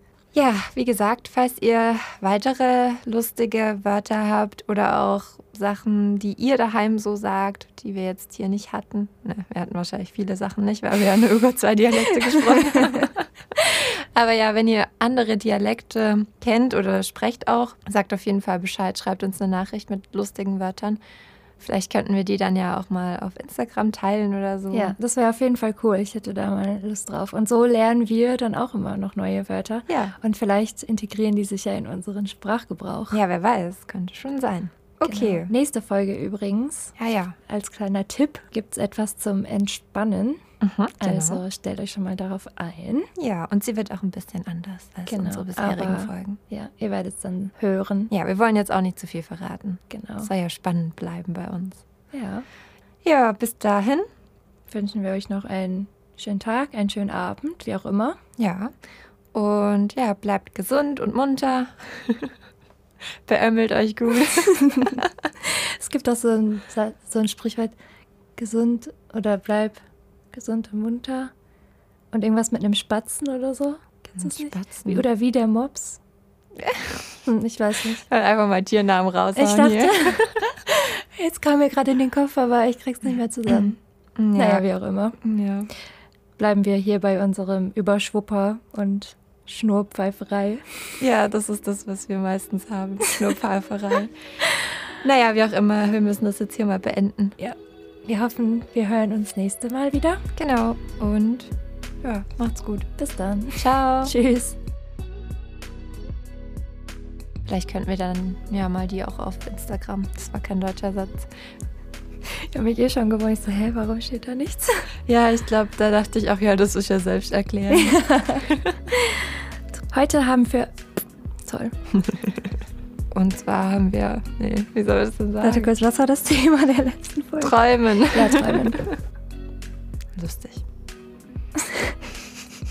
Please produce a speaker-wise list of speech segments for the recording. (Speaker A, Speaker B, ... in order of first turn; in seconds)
Speaker A: 0.3-21.0, 21.6-25.0, 29.9-30.1, 33.1-35.5, 37.0-37.4, 40.6-41.4, 43.2-46.4, 48.1-51.8, 53.0-54.0, 58.4-58.7, 59.3-62.4, 63.3-65.3, 74.2-75.0, 76.6-77.1, 78.1-80.3, 83.5-84.7, 85.2-85.7, 91.0-94.1, 95.0-97.4, 100.4-101.5, 102.0-102.9, 103.6-104.2, 107.5-111.3, 115.1-118.7, 123.1-125.7, 127.4-129.0, 130.2-130.6
Speaker B: 12.6-13.0, 24.7-33.2, 35.0-36.9, 37.5-40.4, 41.0-43.1, 45.1-48.1, 49.9-50.3, 52.1-52.5, 54.7-58.2, 64.2-67.7, 68.4-71.3, 72.1-76.0, 77.2-78.0, 79.3-83.8, 84.3-85.2, 86.4-90.8, 97.4-100.2, 103.0-104.6, 112.3-114.9, 117.7-120.7, 121.5-121.7, 125.4-128.8, 131.6-132.0